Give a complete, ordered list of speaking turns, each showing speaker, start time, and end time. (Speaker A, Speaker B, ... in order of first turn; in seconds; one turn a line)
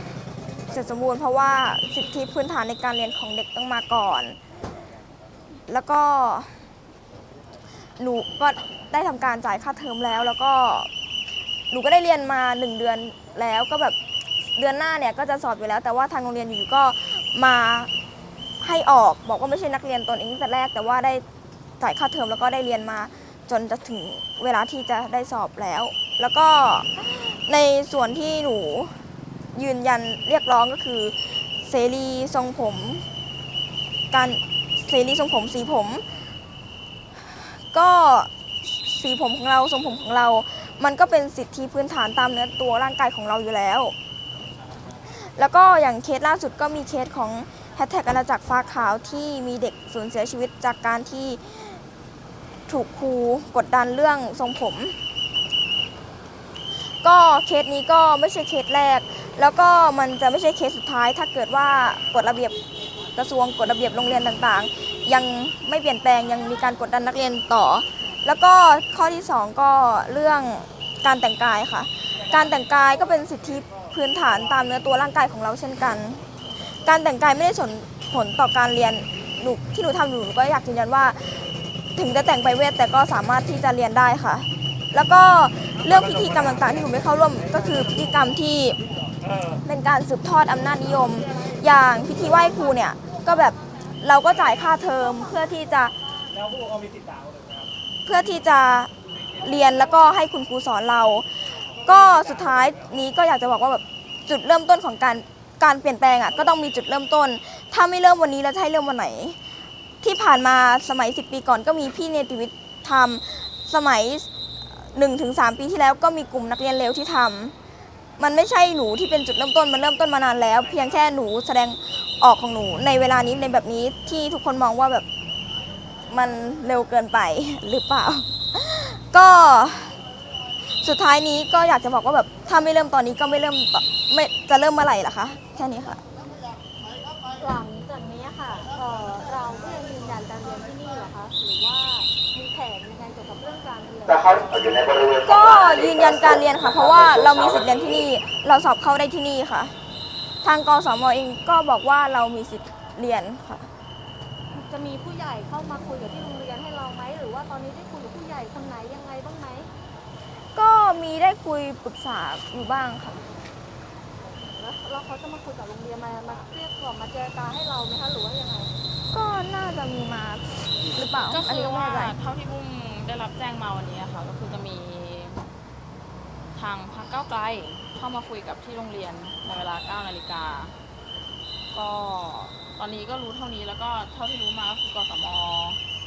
Speaker A: 0.7-4.4
Speaker A: 5.7-6.5
Speaker A: 8.0-10.9
Speaker A: 11.7-14.0
Speaker A: 14.5-17.9
Speaker A: 18.6-21.2
Speaker A: 21.8-33.0
Speaker A: 34.1-36.3
Speaker A: 37.5-44.0
Speaker A: 45.1-51.8
Speaker A: 52.7-55.0
Speaker A: 57.0-62.5
Speaker A: 63.1-88.8
Speaker A: 89.6-95.9
Speaker A: 98.0-109.4
Speaker A: 110.0-114.3
Speaker A: 114.8-117.5
Speaker A: 118.2-125.0
Speaker A: 126.1-130.0
Speaker A: 130.6-136.0
Speaker B: 137.4-144.3
Speaker C: 144.1-148.0
Speaker A: 145.2-149.7
Speaker A: 150.4-153.7
Speaker B: 154.5-159.7
Speaker A: 160.5-163.2
Speaker B: 164.2-168.7
Speaker A: 169.1-172.1
Speaker D: 171.2-175.4
Speaker D: 176.6-180.8
Speaker D: 181.7-185.8